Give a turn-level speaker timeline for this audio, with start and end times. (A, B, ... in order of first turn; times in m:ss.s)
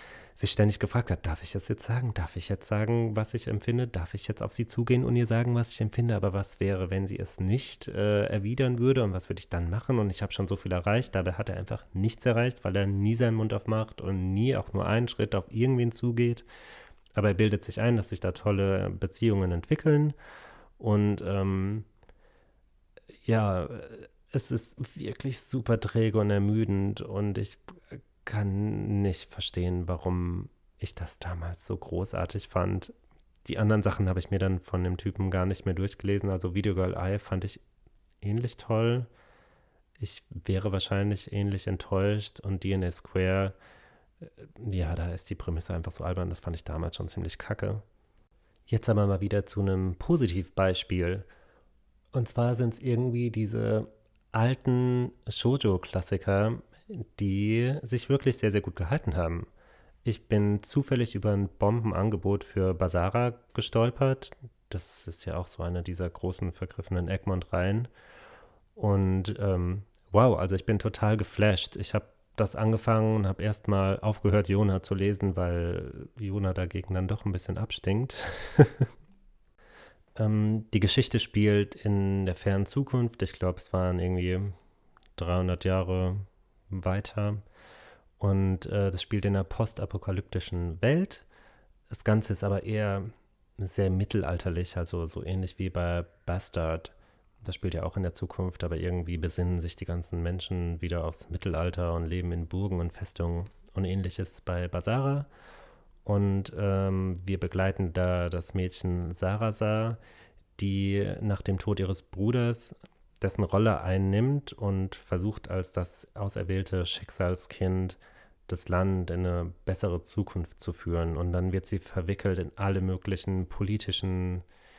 0:00.4-0:16.4 A
0:17.2-0:20.2 A
0:20.8-0:21.9 A
0:23.3-0:37.6 A
0:38.2-0:39.1 A
0:40.0-0:43.6 A
0:44.4-0:47.8 A
0:48.7-0:51.3 A
0:52.1-0:59.5 A
1:00.0-1:07.9 A
1:08.8-1:18.9 A
1:20.2-1:24.5 A
1:25.2-1:27.4 A
1:28.2-1:31.2 A
1:31.9-1:45.3 A
1:46.0-1:50.0 A
1:50.6-2:04.4 A